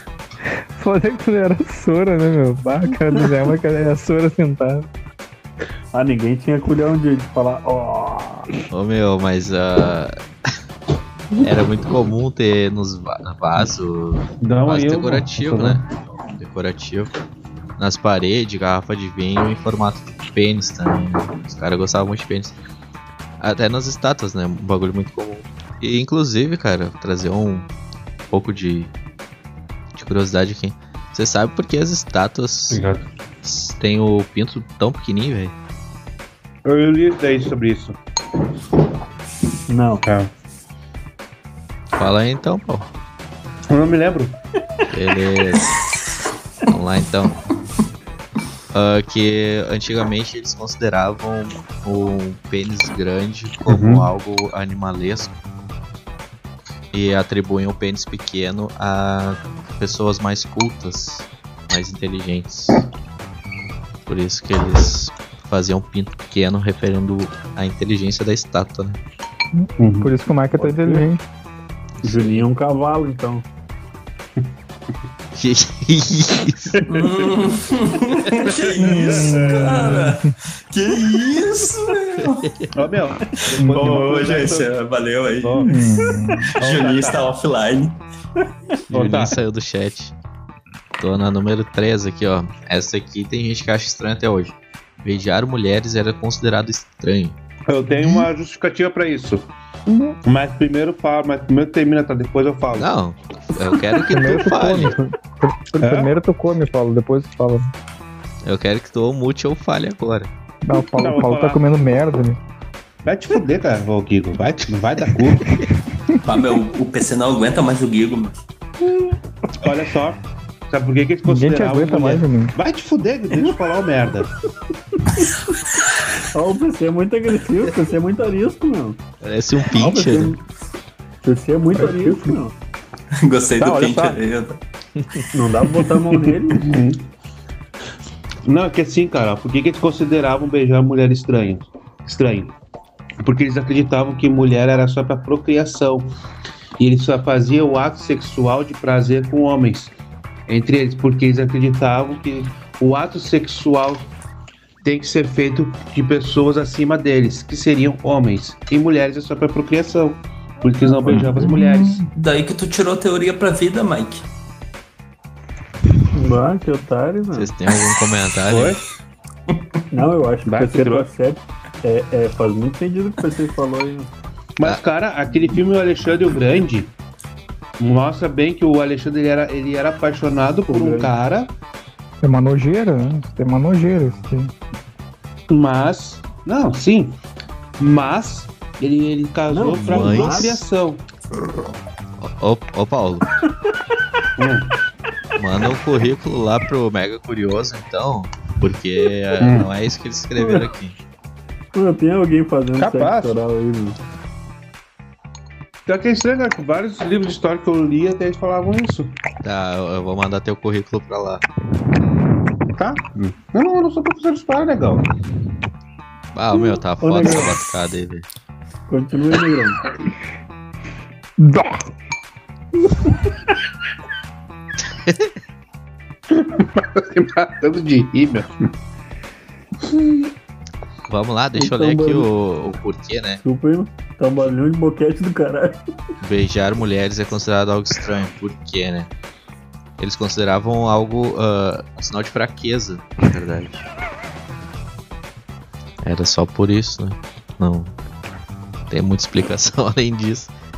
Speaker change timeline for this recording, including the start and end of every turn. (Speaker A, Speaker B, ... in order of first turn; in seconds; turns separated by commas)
Speaker A: 0.7-4.9, Speaker B: 5.9-8.5, Speaker C: 8.7-10.2, Speaker C: 11.4-17.1, Speaker D: 14.4-15.8, Speaker C: 17.8-22.6, Speaker C: 23.4-27.7, Speaker C: 28.3-28.9, Speaker C: 29.9-32.8, Speaker D: 32.7-33.1, Speaker C: 33.4-35.5, Speaker D: 36.6-38.0, Speaker B: 39.7-40.0, Speaker D: 40.0-40.3, Speaker C: 42.0-42.9, Speaker D: 43.7-44.4, Speaker C: 44.9-45.7, Speaker C: 46.7-47.4, Speaker C: 48.7-55.3, Speaker D: 53.7-54.1, Speaker C: 56.9-62.8, Speaker C: 64.1-69.0, Speaker A: 69.6-71.2, Speaker D: 69.8-70.1, Speaker B: 70.6-71.0, Speaker C: 72.0-72.5, Speaker B: 72.0-73.5, Speaker C: 75.3-76.8, Speaker E: 76.9-82.5, Speaker A: 78.8-80.3, Speaker C: 82.2-82.7, Speaker D: 82.7-84.7, Speaker E: 83.6-85.7, Speaker D: 85.4-85.9, Speaker A: 85.6-86.5, Speaker D: 86.5-87.3, Speaker E: 86.5-88.0, Speaker C: 88.9-90.2, Speaker D: 88.9-89.4, Speaker C: 91.0-97.4, Speaker D: 97.7-99.5, Speaker D: 100.2-102.9, Speaker C: 102.7-105.0, Speaker A: 104.1-107.7, Speaker D: 105.8-106.1, Speaker C: 108.4-110.3, Speaker A: 110.7-112.4, Speaker D: 110.9-111.6, Speaker D: 113.0-115.5, Speaker E: 116.2-118.4, Speaker D: 119.6-124.3, Speaker A: 121.2-122.5, Speaker B: 126.3-129.0, Speaker C: 129.2-130.3, Speaker B: 129.7-130.4, Speaker B: 131.2-132.5, Speaker E: 133.2-134.6, Speaker B: 133.6-134.2, Speaker B: 135.3-136.7, Speaker D: 136.5-137.1, Speaker D: 138.4-142.6, Speaker D: 143.2-146.1, Speaker D: 146.8-149.9, Speaker D: 150.5-154.1, Speaker D: 154.8-162.1, Speaker A: 161.5-161.9, Speaker E: 162.1-164.3, Speaker B: 166.1-167.5, Speaker C: 167.3-168.8, Speaker D: 168.5-168.8, Speaker B: 169.9-174.1, Speaker D: 170.5-171.1, Speaker D: 174.6-176.9, Speaker D: 177.8-181.5, Speaker B: 180.7-181.1, Speaker A: 182.2-184.5, Speaker D: 185.5-187.2, Speaker D: 187.8-191.0, Speaker B: 189.5-190.6, Speaker C: 189.8-190.6, Speaker C: 192.2-193.3, Speaker D: 194.4-194.7, Speaker C: 195.4-201.0, Speaker D: 199.4-199.7, Speaker B: 200.4-200.7, Speaker B: 201.7-204.0, Speaker D: 202.8-203.4, Speaker D: 205.9-209.2, Speaker C: 209.4-211.4, Speaker D: 212.8-215.1, Speaker C: 216.3-218.3, Speaker B: 217.0-217.6, Speaker B: 218.9-219.8, Speaker A: 221.4-221.9, Speaker C: 224.9-225.3, Speaker D: 226.3-228.7, Speaker C: 231.1-233.4, Speaker B: 231.6-232.3, Speaker B: 233.4-235.8, Speaker C: 236.2-239.1, Speaker C: 240.0-243.9, Speaker C: 246.0-247.9, Speaker C: 248.9-250.5